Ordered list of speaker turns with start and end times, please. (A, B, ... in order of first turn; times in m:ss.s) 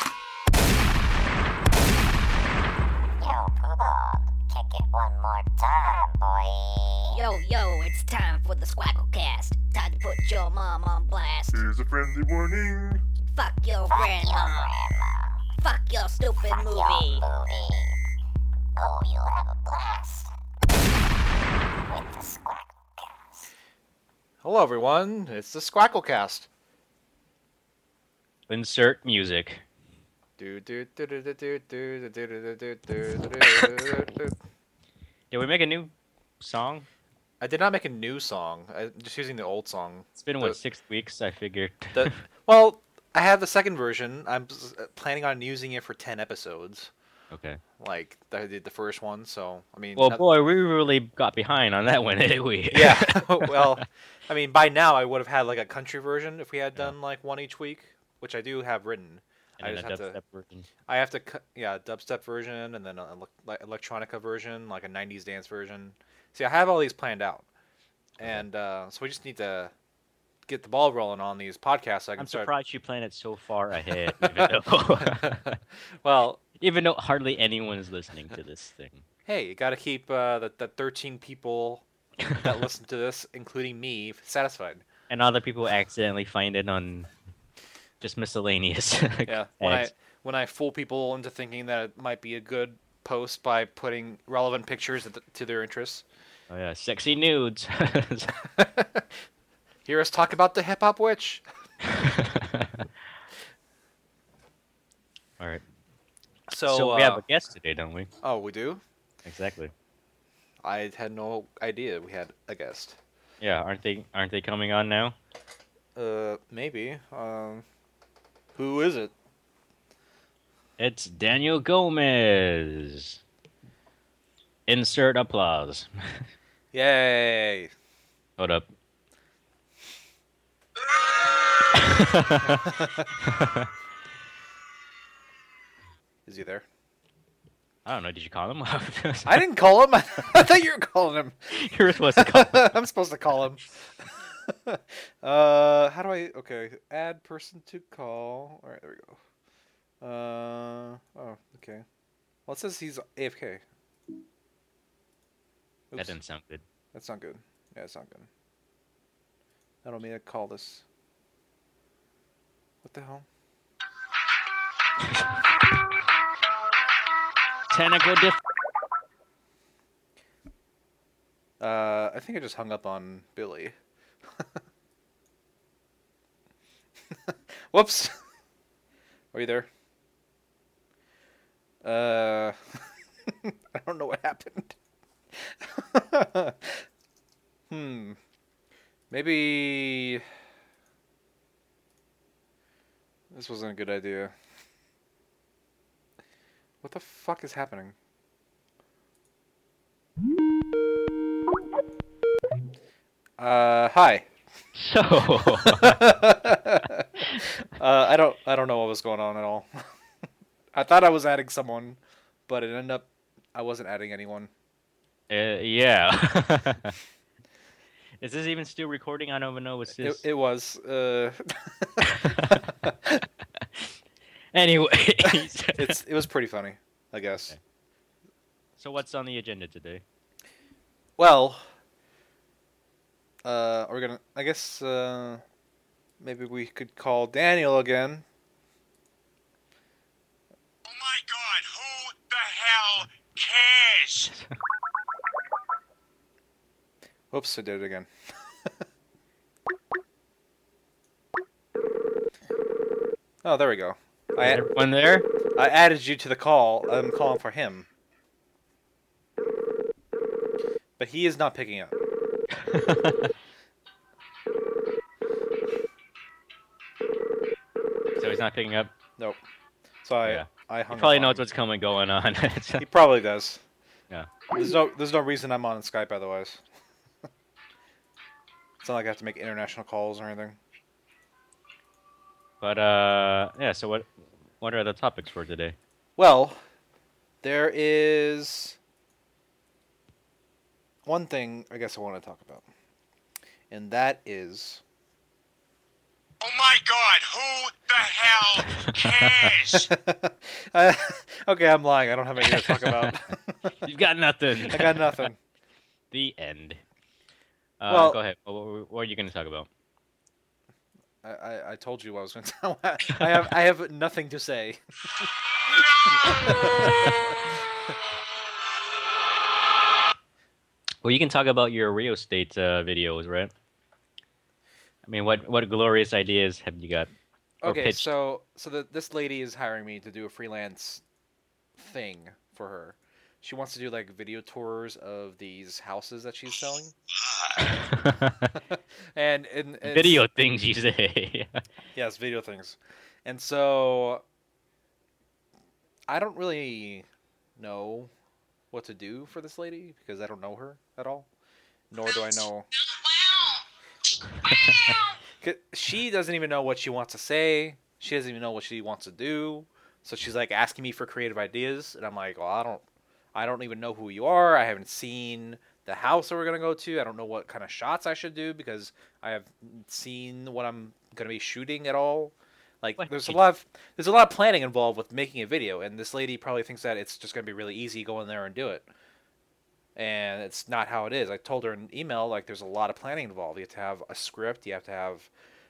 0:03.2-0:07.2 A
0:07.1-0:11.8 B
0:13.3-0:14.7 B
0:13.9-0:15.3 A
0:15.6-0:17.2 B
0:16.4-0:17.9 A
0:18.8-0:20.3 A
0:21.9-0:23.4 A
0:24.4-0:26.5 C
0:28.5-0:29.6 D
0:30.4-0:34.4 C
0:35.3-0:36.9 D
0:37.4-0:40.6 C
0:40.2-0:42.2 D
0:41.9-0:46.9 C
0:47.3-0:47.6 D
0:47.8-0:50.2 C
0:50.0-0:53.8 D
0:52.7-1:00.2 C
0:59.6-1:00.7 D
1:00.9-1:07.5 C
1:08.2-1:09.7 C
1:10.5-1:12.5 C
1:12.2-1:15.6 D
1:14.1-1:16.4 C
1:16.6-1:19.0 D
1:19.3-1:24.8 C
1:25.1-1:27.1 D
1:28.0-1:29.9 D
1:29.3-1:36.0 C
1:36.5-1:38.4 D
1:38.6-1:39.1 C
1:39.9-1:41.4 C
1:41.8-1:42.9 D
1:46.5-1:47.2 C
1:46.6-1:48.1 D
1:48.2-1:48.8 C
1:49.3-1:49.7 D
1:50.6-1:53.0 C
1:53.4-1:55.2 D
1:56.0-1:57.6 C
1:58.6-1:59.1 C
2:00.8-2:03.2 D
2:04.7-2:06.2 D
2:06.7-2:07.7 C
2:08.4-2:08.7 D
2:11.7-2:13.7 D
2:12.6-2:13.1 C
2:16.3-2:16.6 C
2:17.8-2:19.4 D
2:19.3-2:21.6 C
2:21.5-2:22.7 D
2:22.1-2:23.7 C
2:24.5-2:29.2 C
2:30.0-2:31.8 C
2:32.5-2:33.6 C
2:35.9-2:36.2 C
2:36.0-2:36.6 D
2:36.9-2:38.3 C
2:39.8-2:40.8 C
2:42.8-2:43.3 C
2:47.7-2:48.4 D
2:51.6-2:53.8 C
2:57.1-2:58.2 C
2:59.3-2:59.7 C
3:01.8-3:04.8 C
3:05.3-3:06.8 C
3:07.7-3:08.2 C
3:09.1-3:10.2 C
3:13.3-3:14.3 C
3:16.8-3:18.0 C
3:23.4-3:24.3 C
3:24.8-3:26.0 D
3:25.5-3:29.7 C
3:30.7-3:34.5 C
3:35.3-3:37.0 D
3:38.2-3:40.2 D
3:40.0-3:43.2 C
3:42.0-3:42.6 D
3:43.6-3:43.9 D
3:44.5-3:46.0 D
3:45.2-3:47.6 C
3:48.8-3:50.0 D
3:51.2-3:51.6 C
3:53.4-3:55.4 C
3:56.2-3:58.2 C
4:00.8-4:04.3 E
4:07.3-4:08.1 C
4:13.4-4:14.6 C
4:14.4-4:15.3 D
4:15.6-4:17.9 C
4:21.0-4:22.0 C
4:22.6-4:23.3 D
4:28.2-4:28.9 D
4:30.0-4:31.4 C
4:30.2-4:32.9 D
4:32.8-4:33.6 C
4:34.5-4:36.6 C
4:38.8-4:40.6 C
4:42.6-4:44.1 D
4:44.6-4:45.8 D
4:46.2-4:46.6 C
4:47.4-4:48.8 C
4:51.1-4:52.7 C
4:53.7-4:54.8 C
4:56.4-4:59.9 E
4:58.5-4:59.7 D
4:59.7-5:03.8 C
5:02.4-5:03.2 D
5:03.8-5:05.2 D
5:04.7-5:05.4 C
5:06.1-5:06.8 D
5:07.8-5:09.7 D
5:07.9-5:08.2 C
5:11.2-5:17.5 C
5:21.0-5:23.5 D
5:25.1-5:27.1 D
5:27.6-5:31.0 C
5:27.6-5:28.1 D
5:31.8-5:37.0 C
5:37.2-5:37.5 E
5:37.6-5:38.6 D
5:38.7-5:40.2 C
5:39.8-5:41.6 D
5:41.9-5:44.2 C
5:46.1-5:47.1 C
5:47.6-5:48.1 C
5:48.7-5:51.3 C
5:51.9-5:52.7 C
5:52.9-5:53.6 E
5:54.5-5:55.0 E
5:54.6-5:55.0 D
5:55.4-6:02.8 C
6:03.3-6:18.9 C
6:13.0-6:13.4 D
6:20.0-6:25.3 C